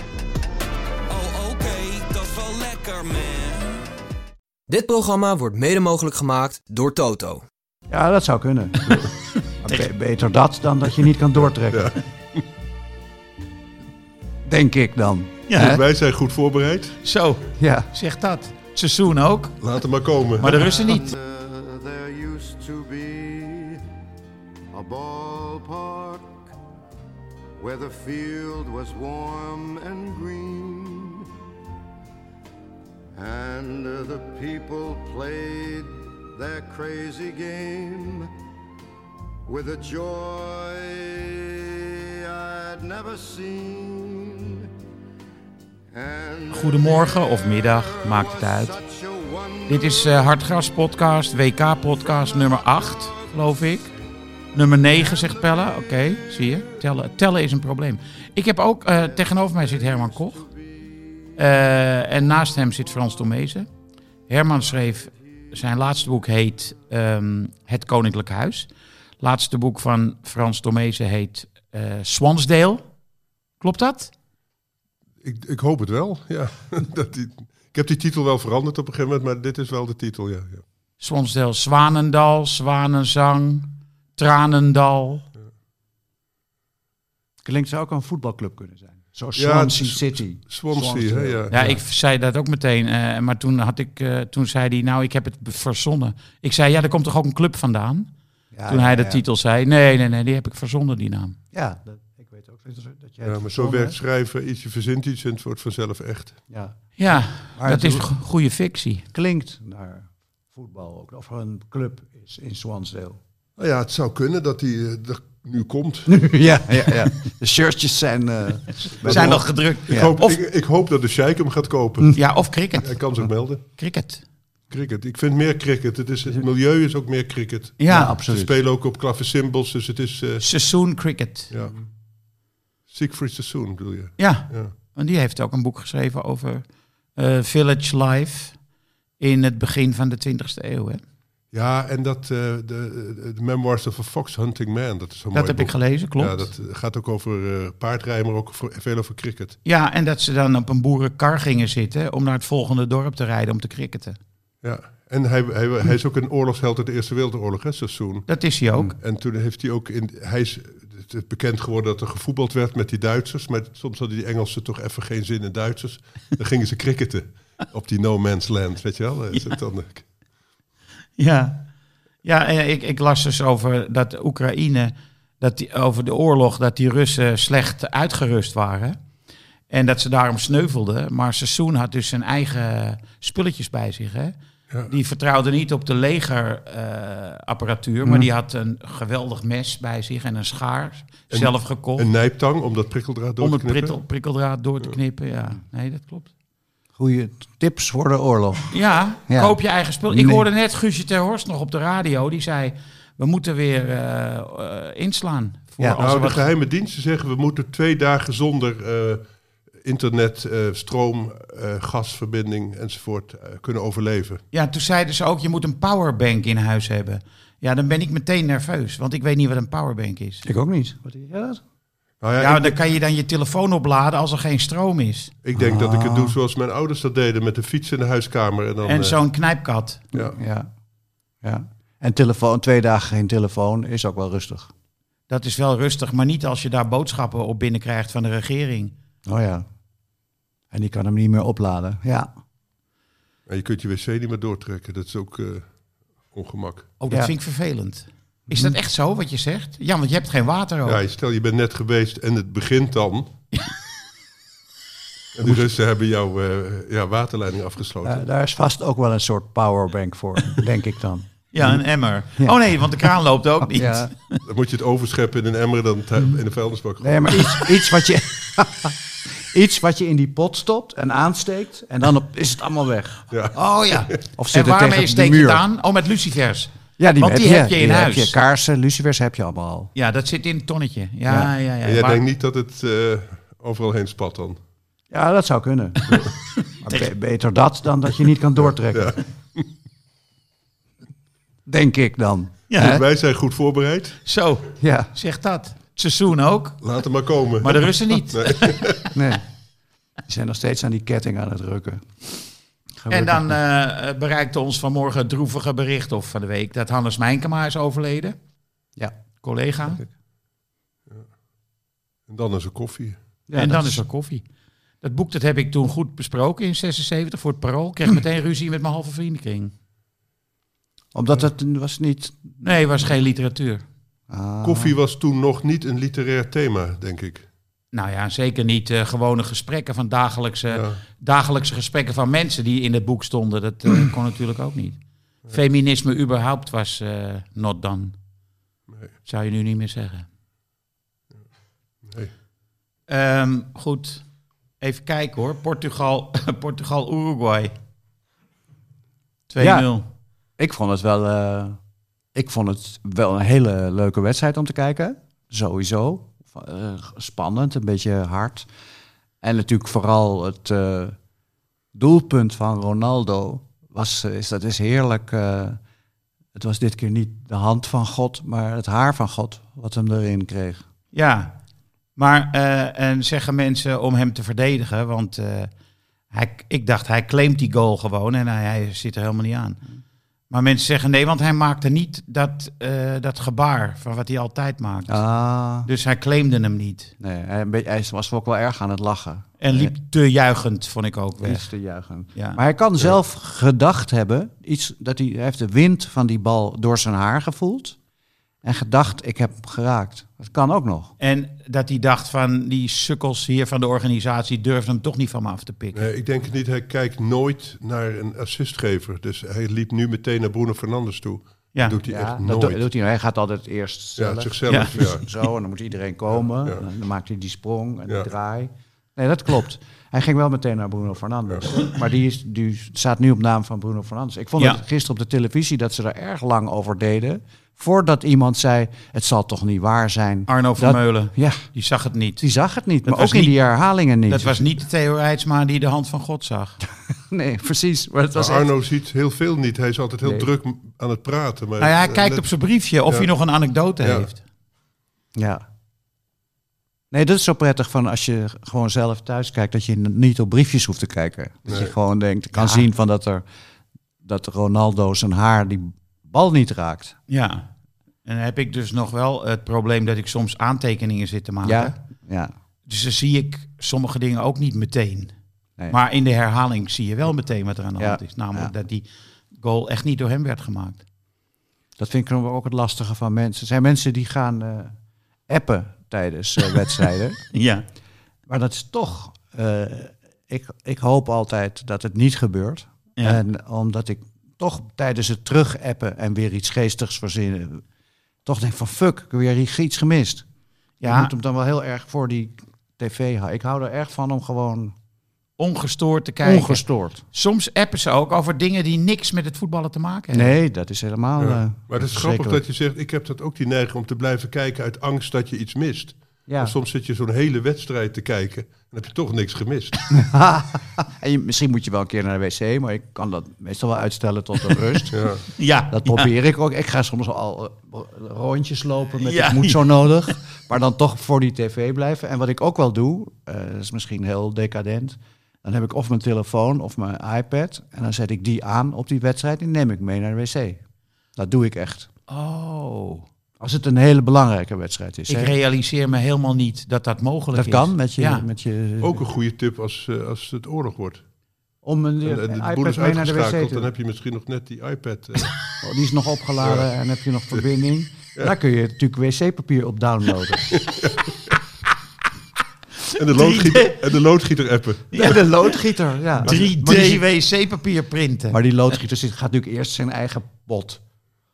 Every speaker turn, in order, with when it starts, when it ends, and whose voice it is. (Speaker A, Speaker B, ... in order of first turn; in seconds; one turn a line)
Speaker A: 1.1-3.8
Speaker B: 4.7-7.4
Speaker C: 7.9-9.1
Speaker D: 9.6-9.9
Speaker C: 9.6-11.9
Speaker E: 11.7-12.4
Speaker C: 14.4-15.8
Speaker D: 15.5-15.8
Speaker E: 15.5-17.0
Speaker D: 17.0-19.6
Speaker C: 17.6-17.9
Speaker E: 19.6-20.6
Speaker D: 20.4-21.1
Speaker F: 20.5-23.8
Speaker F: 24.7-26.5
Speaker F: 27.6-31.3
Speaker F: 33.1-38.3
Speaker F: 39.5-44.7
Speaker F: 45.9-50.4
Speaker D: 46.5-48.7
Speaker D: 49.7-53.9
Speaker F: 51.9-53.6
Speaker D: 54.5-60.4
Speaker F: 55.0-55.5
Speaker F: 58.9-61.4
Speaker D: 61.4-63.7
Speaker D: 64.3-72.8
Speaker D: 73.6-74.1
Speaker E: 75.2-80.6
Speaker D: 81.0-85.2
Speaker C: 87.4-91.5
Speaker E: 89.3-91.7
Speaker D: 91.5-98.1
Speaker C: 98.5-99.2
Speaker D: 98.7-101.4
Speaker C: 101.5-104.0
Speaker E: 103.2-106.4
Speaker C: 106.5-108.1
Speaker D: 107.0-109.0
Speaker C: 109.1-113.2
Speaker E: 113.6-116.3
Speaker C: 116.1-120.1
Speaker E: 119.0-122.2
Speaker D: 119.0-120.4
Speaker D: 122.1-123.0
Speaker E: 122.7-123.6
Speaker D: 123.8-124.2
Speaker E: 124.7-130.4
Speaker D: 127.8-128.1
Speaker C: 127.9-128.5
Speaker D: 130.4-131.5
Speaker E: 131.5-131.8
Speaker E: 132.9-134.7
Speaker D: 134.2-138.6
Speaker D: 139.2-141.0
Speaker E: 141.5-149.6
Speaker D: 145.3-146.5
Speaker D: 149.6-154.2
Speaker E: 154.6-158.3
Speaker D: 158.3-158.9
Speaker E: 159.0-170.0
Speaker D: 171.2-171.6
Speaker D: 172.2-179.0
Speaker D: 179.7-184.3
Speaker D: 184.9-192.1
Speaker C: 188.0-188.3
Speaker E: 191.3-194.0
Speaker D: 193.4-196.3
Speaker C: 196.9-198.7
Speaker D: 198.7-206.5
Speaker C: 199.3-199.6
Speaker C: 200.1-200.4
Speaker E: 206.0-209.2
Speaker E: 209.8-214.4
Speaker D: 214.5-220.4
Speaker C: 220.4-221.6
Speaker E: 222.2-222.8
Speaker D: 222.4-225.3
Speaker E: 225.4-229.2
Speaker C: 225.5-226.4
Speaker D: 228.8-230.0
Speaker C: 230.3-230.7
Speaker C: 231.4-234.7
Speaker D: 235.3-238.9
Speaker C: 239.2-239.7
Speaker C: 240.7-242.3
Speaker E: 243.5-245.7
Speaker E: 246.3-246.9
Speaker D: 247.0-251.0
Speaker C: 248.5-248.7
Speaker E: 250.8-253.3
Speaker E: 255.3-258.2
Speaker C: 258.0-261.8
Speaker D: 261.5-264.4
Speaker C: 263.6-264.1
Speaker E: 264.4-267.7
Speaker C: 267.0-273.2
Speaker E: 273.3-273.6
Speaker D: 273.5-278.4
Speaker C: 274.2-275.6
Speaker C: 277.0-279.9
Speaker D: 279.9-282.2
Speaker E: 281.8-284.6
Speaker C: 285.1-286.3
Speaker D: 286.7-287.1
Speaker C: 286.8-289.2
Speaker E: 288.9-289.6
Speaker C: 291.6-293.0
Speaker D: 292.7-292.9
Speaker E: 292.7-294.2
Speaker D: 294.2-296.8
Speaker C: 294.8-295.1
Speaker E: 296.8-299.0
Speaker D: 297.6-299.1
Speaker C: 299.1-299.4
Speaker C: 300.2-302.1
Speaker C: 303.0-303.6
Speaker D: 303.1-308.4
Speaker D: 309.4-310.0
Speaker E: 312.3-313.2
Speaker C: 313.5-314.0
Speaker D: 313.6-314.4
Speaker D: 315.0-319.7
Speaker C: 321.1-322.5
Speaker D: 322.6-323.8
Speaker C: 324.3-324.9
Speaker E: 324.6-327.5
Speaker D: 327.9-338.1
Speaker E: 330.7-331.0
Speaker D: 339.2-340.3
Speaker E: 342.1-342.3
Speaker D: 343.1-344.2
Speaker D: 344.8-347.7
Speaker D: 349.5-350.1
Speaker C: 349.6-349.9
Speaker C: 350.6-351.8
Speaker C: 352.3-358.7
Speaker C: 359.4-361.1
Speaker C: 361.9-365.8
Speaker C: 366.5-370.8
Speaker D: 371.1-371.6
Speaker D: 372.1-375.7
Speaker D: 376.3-379.8
Speaker D: 380.5-385.2
Speaker C: 385.1-385.9
Speaker D: 385.8-387.1
Speaker C: 387.2-389.9
Speaker D: 389.6-391.7
Speaker C: 391.4-398.0
Speaker C: 398.6-401.1
Speaker D: 401.2-406.1
Speaker E: 405.9-412.8
Speaker C: 412.0-431.6
Speaker E: 414.2-415.2
Speaker D: 414.7-415.1
Speaker D: 430.5-432.4
Speaker C: 432.4-434.7
Speaker D: 433.0-433.6
Speaker D: 434.3-436.8
Speaker C: 437.1-438.7
Speaker E: 438.3-442.4
Speaker C: 440.2-440.5
Speaker D: 441.8-444.4
Speaker E: 444.0-444.3
Speaker C: 445.3-445.6
Speaker C: 447.1-453.4
Speaker E: 451.7-451.9
Speaker D: 452.6-452.8
Speaker C: 454.2-457.1
Speaker D: 457.3-457.7
Speaker D: 458.2-461.9
Speaker C: 461.6-462.5
Speaker D: 462.9-465.3
Speaker D: 465.9-471.0
Speaker C: 468.0-468.7
Speaker C: 472.0-474.9
Speaker C: 475.5-477.4
Speaker D: 477.5-477.8
Speaker C: 478.5-487.8
Speaker C: 488.4-490.4
Speaker D: 491.0-491.3
Speaker C: 491.0-494.9
Speaker D: 495.6-500.5
Speaker C: 496.4-497.2
Speaker C: 500.3-502.6
Speaker E: 501.4-510.0
Speaker C: 506.5-506.7
Speaker C: 510.1-515.2
Speaker E: 515.1-515.4
Speaker D: 515.5-516.3
Speaker C: 515.9-530.8
Speaker D: 519.2-520.3
Speaker C: 531.4-532.1
Speaker D: 532.3-533.2
Speaker C: 533.6-535.5
Speaker D: 535.3-538.4
Speaker C: 537.5-539.2
Speaker E: 539.0-541.2
Speaker C: 541.8-543.9
Speaker E: 542.2-545.6
Speaker C: 545.8-550.8
Speaker E: 546.6-546.9
Speaker E: 550.7-551.5
Speaker D: 553.0-554.0
Speaker E: 553.1-555.3
Speaker D: 555.1-555.8
Speaker C: 555.1-557.2
Speaker D: 556.4-558.6
Speaker C: 558.5-561.0